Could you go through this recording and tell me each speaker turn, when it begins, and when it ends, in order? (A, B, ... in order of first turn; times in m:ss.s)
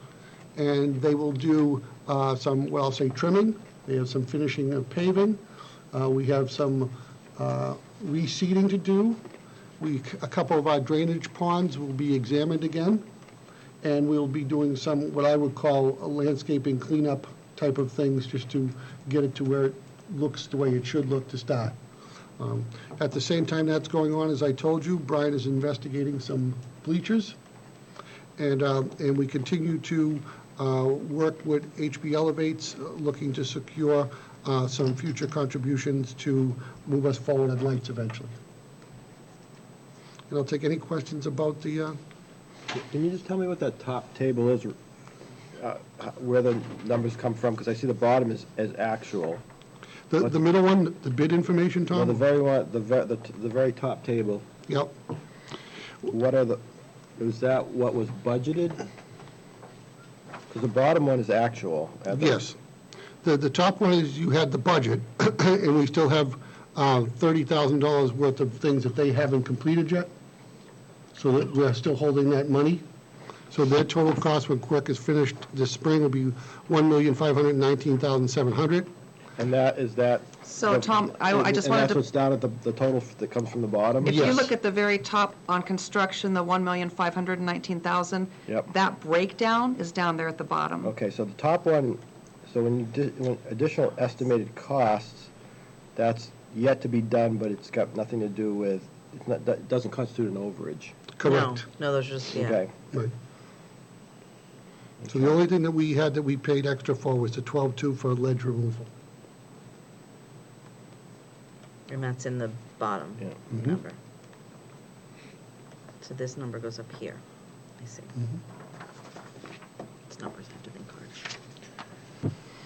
0:00.6-0:05.4 A
0:05.9-0:09.2 A
0:09.8-0:13.0 A
0:13.8-0:21.8 A
0:22.4-0:27.4 A
0:28.4-0:38.3 A
0:40.3-0:42.0 A
0:42.7-0:44.8 B
0:45.6-0:49.4 B
0:50.1-0:52.2 A
0:51.9-0:54.5 B
0:56.0-0:56.6 B
0:57.2-0:58.8 B
1:00.5-1:02.4 B
1:02.1-1:02.6 A
1:03.2-1:10.1 A
1:11.2-1:12.8 A
1:13.5-1:18.9 A
1:19.4-1:24.5 B
1:20.4-1:22.0 C
1:24.0-1:30.9 C
1:24.1-1:24.5 A
1:30.8-1:35.3 B
1:36.0-1:41.0 B
1:41.2-1:41.7 A
1:41.2-1:42.6 D
1:42.3-1:42.7 B
1:45.0-1:45.4 B
1:45.1-1:48.9 A
1:51.9-1:54.0 D
1:53.5-1:53.8 A
1:56.0-1:57.2 D
1:57.8-1:58.2 D
2:00.1-2:01.2 D